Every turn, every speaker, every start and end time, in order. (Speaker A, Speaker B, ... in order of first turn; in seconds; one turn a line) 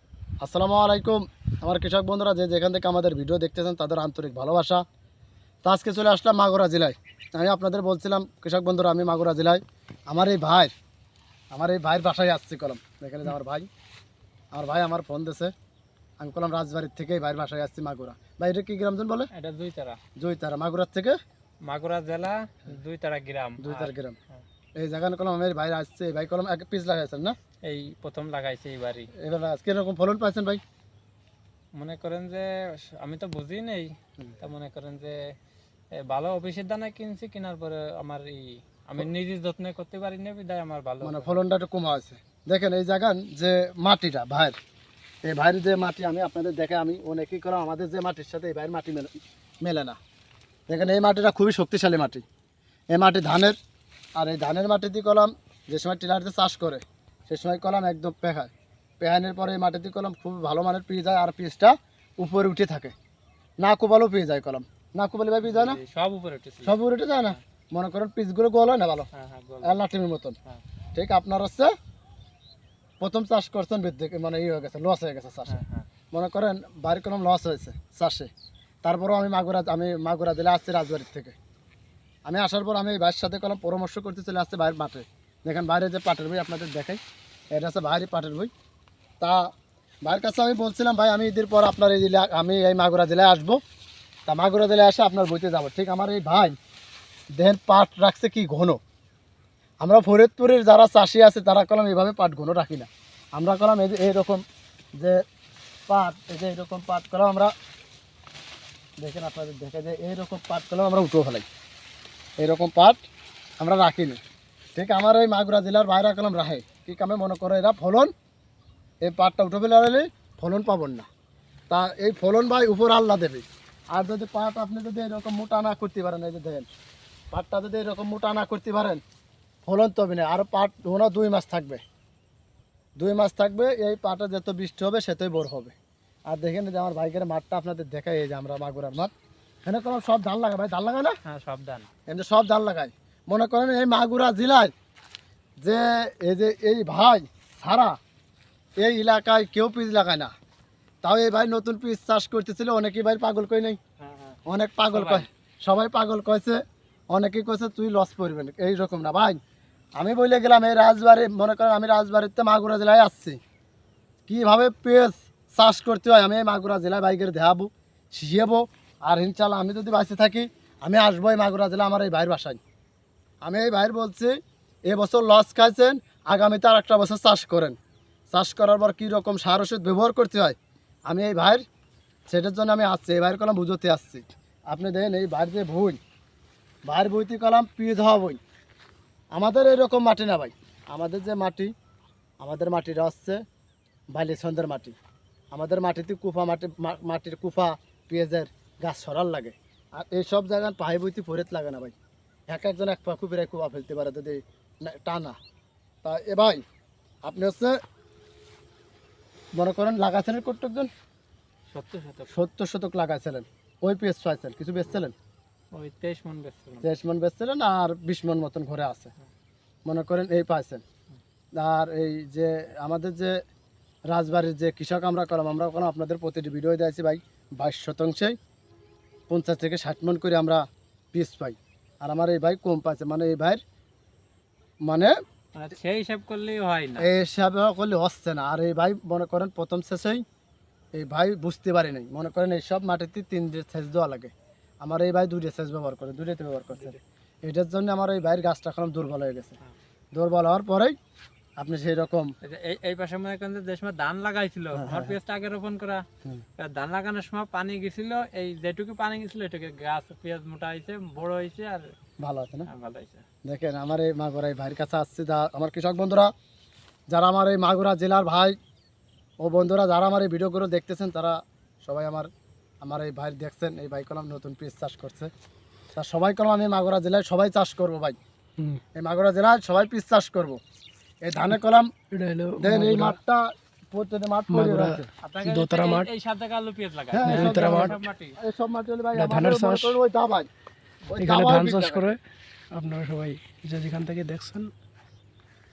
Speaker A: 0.4-4.8
Speaker A: 5.7-10.7
Speaker A: 11.5-13.7
Speaker A: 14.5-15.5
Speaker A: 16.2-19.3
Speaker B: 19.3-20.0
Speaker A: 20.2-21.2
Speaker B: 21.6-24.4
Speaker A: 23.6-24.2
Speaker A: 24.8-27.4
Speaker B: 27.6-29.1
Speaker A: 29.2-30.6
Speaker B: 31.7-35.3
Speaker B: 36.0-41.4
Speaker A: 41.0-44.5
Speaker A: 45.3-49.1
Speaker A: 49.6-50.0
Speaker A: 50.7-52.2
Speaker A: 52.9-53.6
Speaker A: 54.2-62.9
Speaker A: 63.6-65.8
Speaker B: 65.5-67.4
Speaker A: 66.6-69.1
Speaker B: 69.1-69.8
Speaker A: 69.6-70.4
Speaker A: 71.0-71.7
Speaker A: 73.0-75.6
Speaker B: 75.5-75.9
Speaker A: 76.1-78.3
Speaker A: 78.8-81.4
Speaker A: 82.3-87.0
Speaker A: 87.5-88.5
Speaker A: 89.2-89.5
Speaker A: 90.0-93.6
Speaker A: 94.3-96.6
Speaker A: 97.3-98.8
Speaker A: 99.8-104.4
Speaker A: 105.9-107.5
Speaker A: 109.0-111.5
Speaker A: 112.4-113.0
Speaker A: 113.6-114.2
Speaker A: 114.8-118.1
Speaker A: 119.0-121.1
Speaker A: 121.7-126.7
Speaker A: 127.3-129.0
Speaker A: 129.6-131.8
Speaker A: 133.0-135.7
Speaker A: 136.3-139.1
Speaker A: 139.7-141.2
Speaker B: 141.2-141.9
Speaker A: 142.1-144.7
Speaker A: 145.6-148.0
Speaker A: 148.8-150.3
Speaker A: 151.0-153.8
Speaker B: 154.0-154.4
Speaker A: 154.5-159.4
Speaker B: 154.9-155.2
Speaker A: 160.0-163.4
Speaker A: 164.3-172.6
Speaker A: 173.4-177.8
Speaker A: 178.3-180.6
Speaker A: 181.1-181.6
Speaker A: 182.3-186.0
Speaker A: 186.9-188.4
Speaker A: 189.3-191.7
Speaker A: 192.4-193.4
Speaker A: 194.1-195.0
Speaker A: 195.5-201.9
Speaker A: 202.5-205.4
Speaker A: 206.0-206.6
Speaker A: 207.2-207.8
Speaker A: 209.6-210.9
Speaker B: 211.7-212.3
Speaker A: 212.3-215.1
Speaker B: 215.7-216.8
Speaker A: 216.8-219.1
Speaker A: 219.9-220.8
Speaker A: 221.6-223.4
Speaker A: 224.1-228.4
Speaker A: 229.3-233.6
Speaker A: 234.8-235.2
Speaker B: 235.6-237.1
Speaker A: 237.0-240.2
Speaker A: 240.9-249.6
Speaker A: 250.2-250.9
Speaker A: 251.6-252.3
Speaker B: 252.4-256.0
Speaker A: 254.8-255.2
Speaker B: 256.6-261.9
Speaker A: 262.2-262.7
Speaker B: 262.7-263.2
Speaker A: 263.4-266.3
Speaker A: 267.1-268.6
Speaker A: 269.4-272.3
Speaker A: 272.8-275.3
Speaker A: 275.9-278.2
Speaker A: 279.0-280.6
Speaker A: 281.2-281.9
Speaker C: 282.1-283.2
Speaker A: 282.6-285.1
Speaker C: 284.5-286.1
Speaker B: 285.2-288.4
Speaker A: 287.1-290.5
Speaker C: 287.2-288.0
Speaker C: 289.1-290.0
Speaker A: 291.1-292.1
Speaker C: 291.2-292.2
Speaker C: 292.7-294.7